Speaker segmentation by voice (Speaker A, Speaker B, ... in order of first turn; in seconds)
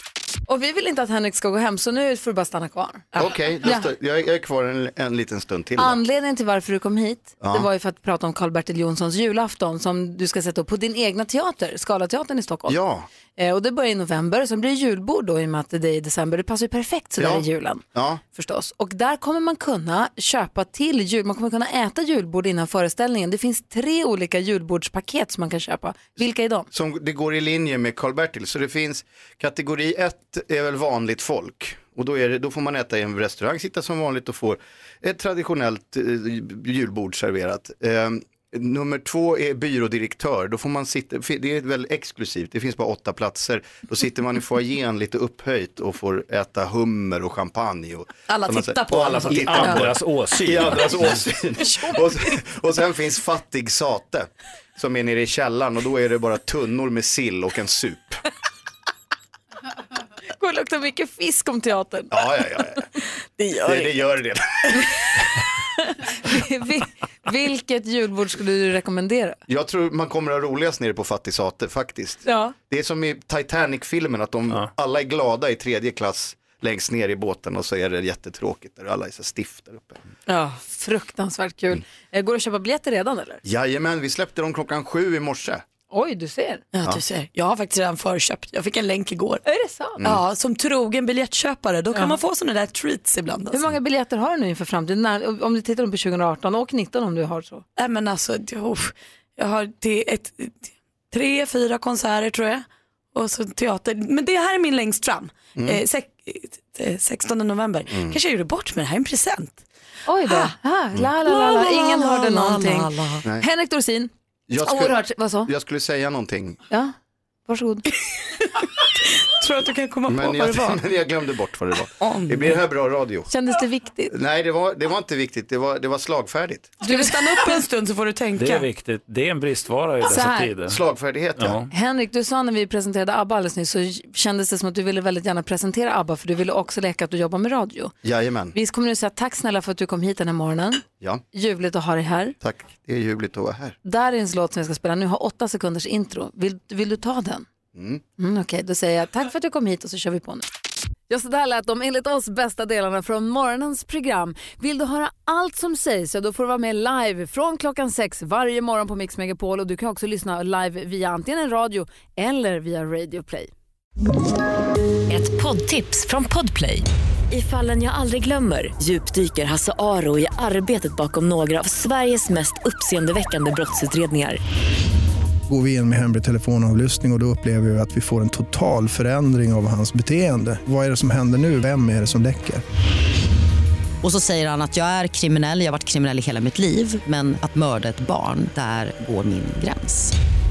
Speaker A: 0.5-3.9, 5.8-12.8, 13.4-26.7, 60.3-62.1, 66.1-69.4, 72.2-72.5, 80.3-83.4, 85.9-86.6, 89.4-90.0, 93.5-97.6, 110.0-115.5, 117.5-117.9, 123.3-124.1, 126.8-127.6, 130.1-130.5, 131.7-137.9, 138.5-142.3, 143.8-147.4, 148.2-150.4, 151.1-163.5
Speaker B: 3.2-6.0, 7.4-7.7, 12.7-13.1, 17.2-18.2, 26.7-58.2, 62.1-62.9, 63.5-64.7, 69.5-80.0, 83.4-85.6, 105.5-105.8, 107.9-108.2, 114.5-116.6, 120.1-123.3, 124.1-126.7, 130.7-131.6, 138.0-138.6, 142.4-143.8, 147.7-148.0
Speaker C: 48.3-49.8, 86.7-89.4, 90.0-93.7, 97.8-109.6, 110.3-110.5, 111.2-113.2, 118.4-120.8, 122.0-122.6, 126.8-128.7
Speaker D: 49.3-51.2, 128.4-130.8, 131.4-131.7
Speaker E: 165.1-174.4
Speaker F: 175.5-182.6
Speaker G: 184.0-190.1